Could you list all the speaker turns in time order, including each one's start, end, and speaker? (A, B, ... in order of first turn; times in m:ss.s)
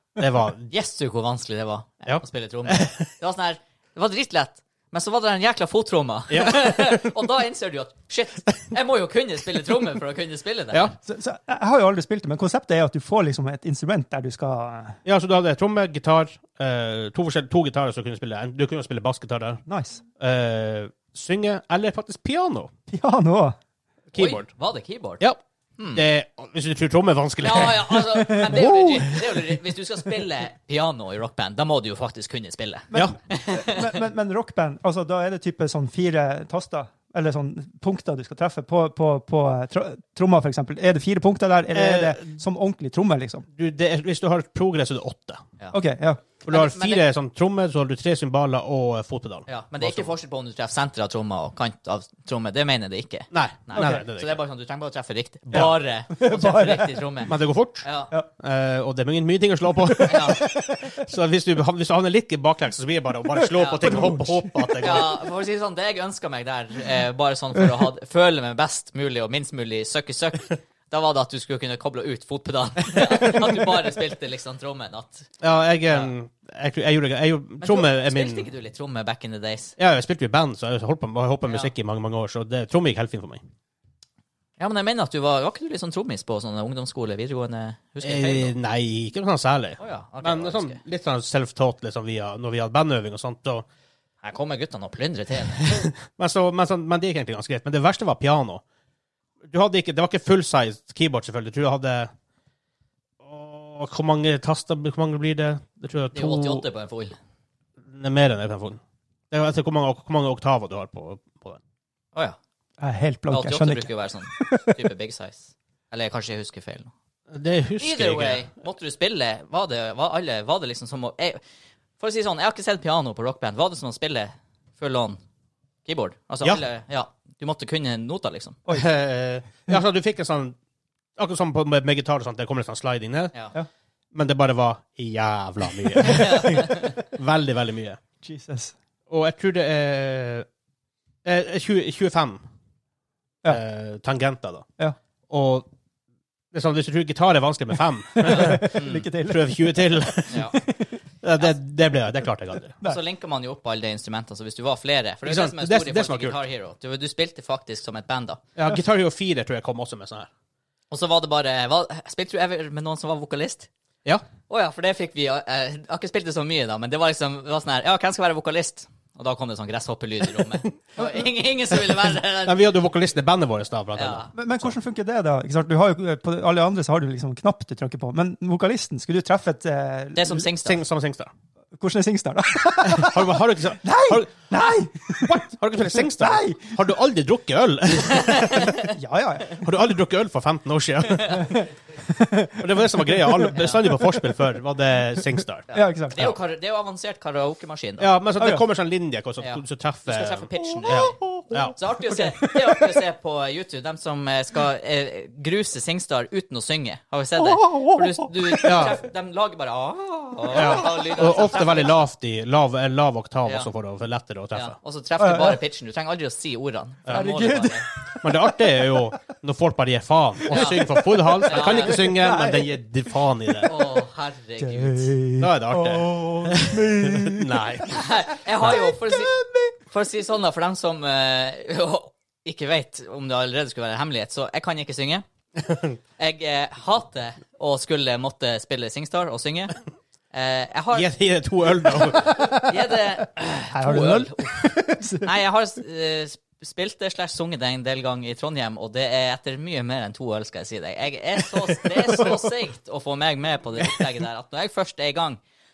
0:00.2-0:00.7 A
0:00.7-0:10.9 B
0:02.0-0:03.1 A
0:06.3-0:07.2 A
0:11.0-0:15.0 C
0:15.0-0:19.6 A
0:19.6-0:20.0 C
0:20.2-0:22.7 A
0:22.9-0:23.6 C
0:24.1-0:24.5 A
0:24.1-0:25.2 B
0:25.8-0:26.0 B
0:25.9-0:28.0 A
0:27.4-0:34.0 B
0:28.0-0:29.4 C
0:32.9-0:43.4 C
0:41.7-0:42.3 A
0:43.5-0:45.4 A
0:45.7-0:46.2 C
0:46.4-0:50.1 A
0:46.5-0:47.0 B
0:49.5-0:58.1 B
0:53.3-0:54.4 A
0:53.8-0:54.0 C
0:55.5-0:55.8 A
0:55.5-0:57.0 C
0:57.2-0:57.8 A
0:58.4-1:05.1 A
1:00.1-1:00.4 B
1:00.3-1:00.9 C
1:03.4-1:05.0 C
1:03.5-1:03.9 B
1:04.8-1:15.3 B
1:15.4-1:18.5 A
1:17.6-1:19.7 B
1:19.8-1:23.4 A
1:21.4-1:21.7 B
1:24.6-1:28.5 B
1:28.0-1:33.6 A
1:29.8-1:30.8 B
1:34.2-1:35.9 B
1:35.6-1:38.6 A
1:39.4-1:42.1 A
1:43.2-1:46.6 A
1:46.1-1:47.2 B
1:47.9-1:48.8 A
1:49.3-1:51.6 A
1:52.8-1:54.8 C
1:53.3-1:56.9 B
1:57.3-1:58.4 A
1:57.8-2:01.4 B
2:02.0-2:05.2 B
2:05.8-2:08.6 B
2:08.7-2:10.6 A
2:11.2-2:13.3 A
2:14.1-2:18.0 A
2:16.0-2:16.9 B
2:18.2-2:18.7 C
2:19.1-2:20.4 A
2:21.2-2:22.4 A
2:23.5-2:24.6 A
2:25.3-2:25.7 A
2:26.5-2:30.5 A
2:28.2-2:30.9 C
2:28.3-2:29.0 B
2:30.3-2:30.6 B
2:31.2-2:32.7 A
2:32.8-2:38.4 B
2:35.2-2:36.4 A
2:38.6-2:40.3 A
2:40.9-2:43.7 B
2:44.5-2:52.7 B
2:52.4-2:54.3 A
2:53.9-2:54.3 B
2:54.3-3:00.5 C
3:00.2-3:00.8 B
3:00.6-3:01.3 A
3:01.8-3:05.4 C
3:02.8-3:04.7 A
3:05.2-3:08.7 A
3:06.1-3:06.8 C
3:08.1-3:08.9 B
3:08.9-3:09.7 C
3:09.6-3:11.6 A
3:11.4-3:14.0 C
3:12.6-3:15.6 A
3:13.5-3:13.8 B
3:15.7-3:18.1 B
3:15.7-3:16.3 C
3:18.0-3:21.8 A
3:18.4-3:18.6 C
3:19.4-3:21.2 B
3:21.8-3:32.0 B
3:22.1-3:23.0 C
3:27.5-3:28.8 C
3:28.6-3:29.0 A
3:30.5-3:34.7 A
3:34.5-3:37.9 B
3:35.2-3:35.6 C
3:37.1-3:38.9 C
3:38.2-3:43.7 A
3:40.5-3:40.8 B
3:40.5-3:42.8 C
3:41.4-3:42.1 B
3:43.6-3:45.1 B
3:44.6-3:47.6 C
3:45.4-3:48.0 A
3:47.9-3:55.2 B
3:48.6-3:49.7 C
3:55.6-3:56.0 A
3:56.2-3:59.7 B
4:00.3-4:01.1 B
4:00.9-4:02.7 A
4:02.5-4:15.4 B
4:03.7-4:05.3 C